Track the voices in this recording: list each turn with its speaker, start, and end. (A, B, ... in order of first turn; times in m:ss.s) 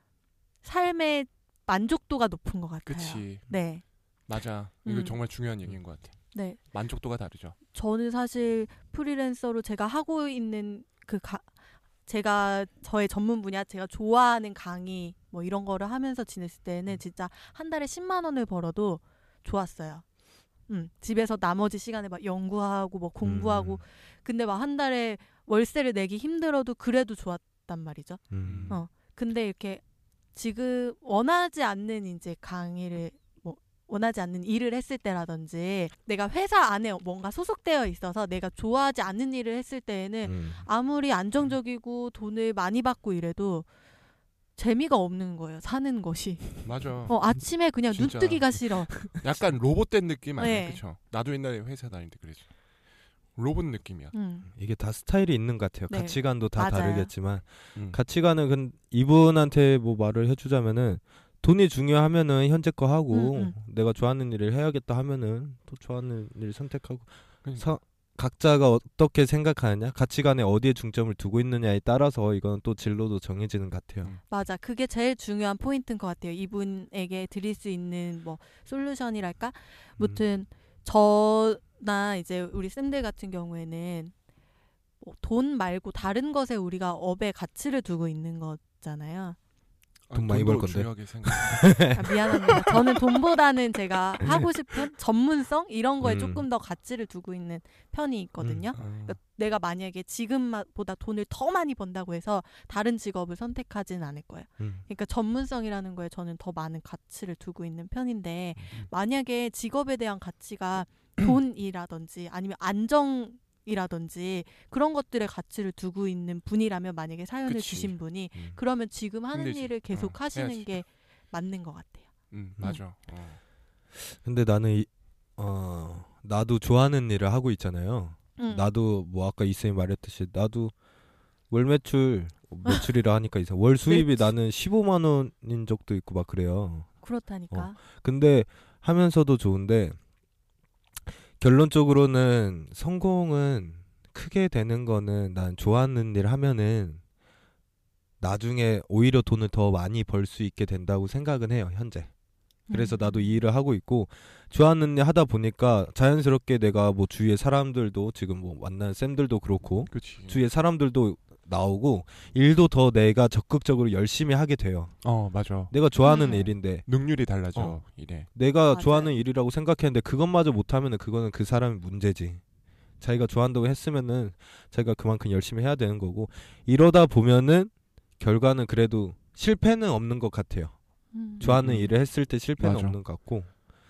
0:00.6-0:03.8 A
0:02.8-0:03.5 B
0:04.3-0:07.6 B
0:04.8-0:05.2 A
0:06.3-0:06.6 A
0:07.7-0:11.5 A
0:12.0-0:20.0 A
0:20.7-0:29.8 A
0:23.2-0:23.8 C
0:28.3-0:28.8 C
0:28.4-0:28.8 B
0:30.3-0:43.7 A
0:40.2-0:40.6 C
0:44.6-0:49.1 A
0:46.6-0:47.2 B
0:47.9-0:52.4 B
0:50.4-0:50.8 A
0:53.3-0:54.1 B
0:54.1-0:54.5 A
0:54.6-1:14.1 C
0:55.9-0:57.1 A
1:03.1-1:03.5 A
1:14.3-1:24.1 A
1:25.0-1:29.4 A
1:30.1-1:31.9 B
1:30.1-1:33.2 C
1:31.9-2:02.1 A
1:34.2-1:34.4 C
1:36.0-1:36.4 C
1:38.4-1:38.7 C
1:38.7-1:39.2 B
1:48.6-1:48.9 B
1:57.5-1:58.6 B
1:59.3-2:00.7 B
2:02.3-2:03.4 B
2:04.0-2:10.7 C
2:08.4-2:08.7 A
2:11.5-2:16.9 C
2:13.9-2:14.3 A
2:17.0-2:17.8 A
2:17.5-2:20.0 C
2:21.4-2:27.0 C
2:28.2-2:32.1 C
2:32.7-2:33.4 A
2:32.7-2:45.0 C
2:39.9-2:40.4 B
2:45.0-2:48.3 B
2:45.7-2:46.9 C
2:46.0-2:46.4 A
2:48.3-2:52.4 C
2:48.7-2:49.1 A
2:53.0-3:00.7 C
3:01.1-3:01.4 A
3:01.4-3:03.5 C
3:01.4-3:02.0 B
3:02.6-3:03.0 B